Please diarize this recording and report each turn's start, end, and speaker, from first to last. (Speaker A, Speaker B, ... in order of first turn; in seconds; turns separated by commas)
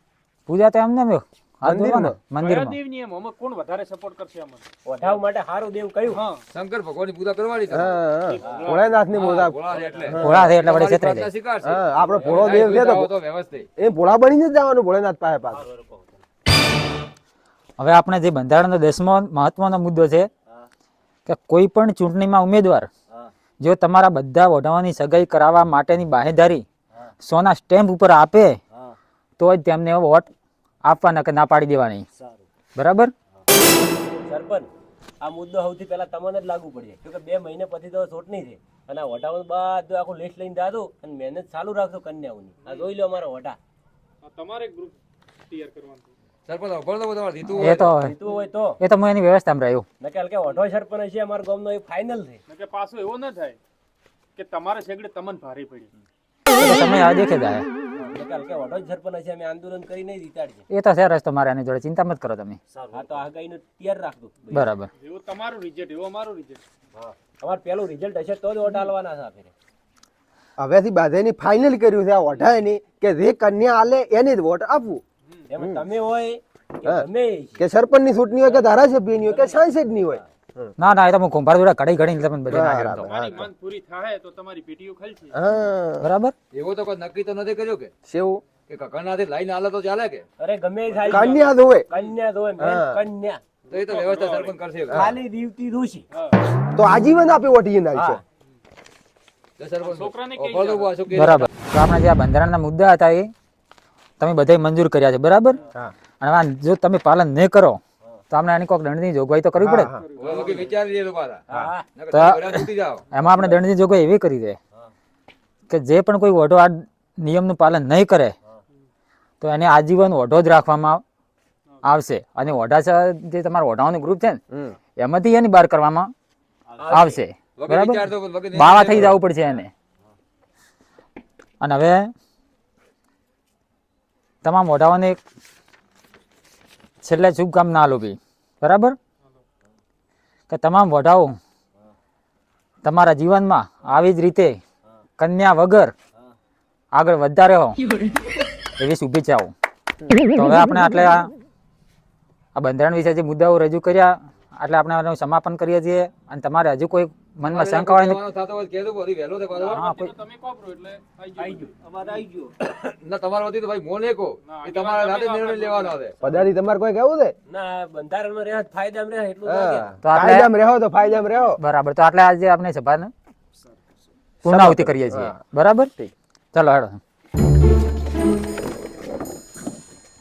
Speaker A: 0.5-2.8, Speaker B: 1.6-2.2, Speaker C: 2.4-4.6, Speaker D: 4.8-6.2, Speaker C: 6.1-6.5, Speaker E: 6.5-8.0, Speaker B: 7.7-10.5, Speaker C: 8.4-9.0, Speaker E: 9.1-13.7, Speaker D: 9.7-10.1, Speaker A: 10.2-11.3, Speaker B: 11.6-13.1, Speaker D: 12.0-12.7, Speaker B: 13.8-15.7, Speaker A: 17.8-20.3, Speaker A: 21.3-22.9, Speaker A: 23.6-26.6, Speaker A: 27.2-28.6, Speaker A: 29.4-30.3, Speaker A: 30.9-32.0, Speaker A: 32.8-33.1, Speaker D: 34.3-34.7, Speaker D: 35.2-43.6, Speaker C: 42.6-42.9, Speaker C: 44.2-45.0, Speaker C: 45.5-46.1, Speaker E: 46.5-47.9, Speaker A: 47.5-48.1, Speaker D: 47.7-48.8, Speaker A: 48.8-49.9, Speaker D: 50.0-52.4, Speaker C: 52.5-53.6, Speaker C: 54.4-55.9, Speaker A: 56.6-57.7, Speaker D: 58.0-60.6, Speaker A: 60.7-62.6, Speaker D: 62.9-64.7, Speaker A: 64.5-64.9, Speaker C: 65.0-66.6, Speaker D: 67.0-69.5, Speaker B: 70.6-75.0, Speaker D: 75.5-77.6, Speaker B: 77.6-80.7, Speaker D: 79.2-79.6, Speaker A: 80.8-83.1, Speaker B: 82.5-83.5, Speaker C: 83.0-85.4, Speaker B: 85.3-86.1, Speaker A: 86.0-86.3, Speaker E: 86.5-87.9, Speaker B: 88.1-88.4, Speaker E: 88.7-90.3, Speaker D: 90.4-93.4, Speaker C: 91.0-92.1, Speaker B: 91.1-91.9, Speaker B: 92.6-92.9, Speaker C: 93.7-94.6, Speaker E: 93.7-95.1, Speaker B: 94.9-95.2, Speaker D: 94.9-96.1, Speaker C: 96.1-96.4, Speaker B: 96.7-98.2, Speaker E: 99.6-101.5, Speaker C: 99.8-101.0, Speaker A: 101.1-103.3, Speaker A: 104.2-105.6, Speaker A: 106.2-107.8, Speaker A: 108.3-109.9, Speaker B: 109.6-110.0, Speaker C: 109.9-110.7, Speaker E: 110.2-111.4, Speaker D: 110.3-110.6, Speaker D: 111.5-111.9, Speaker E: 112.0-113.1, Speaker A: 112.1-114.6, Speaker A: 115.7-118.3, Speaker A: 119.4-121.0, Speaker A: 121.8-124.4, Speaker B: 124.5-124.8, Speaker A: 125.0-126.1, Speaker D: 126.8-127.2, Speaker A: 126.9-129.7, Speaker E: 127.6-129.2, Speaker A: 131.6-132.1, Speaker A: 134.4-135.2, Speaker A: 137.0-139.0, Speaker A: 140.5-141.4, Speaker A: 142.8-144.6, Speaker A: 145.2-145.9, Speaker A: 146.9-147.9, Speaker A: 148.8-149.5, Speaker A: 150.3-151.3, Speaker A: 152.6-158.2, Speaker E: 157.5-159.9, Speaker C: 159.5-162.1, Speaker A: 159.8-160.1, Speaker D: 161.4-162.3, Speaker E: 162.6-166.2, Speaker C: 164.4-166.0, Speaker B: 166.2-167.3, Speaker D: 167.5-169.9, Speaker B: 169.5-171.6, Speaker A: 170.1-170.5, Speaker A: 171.6-173.1, Speaker B: 174.4-175.4, Speaker A: 174.5-177.0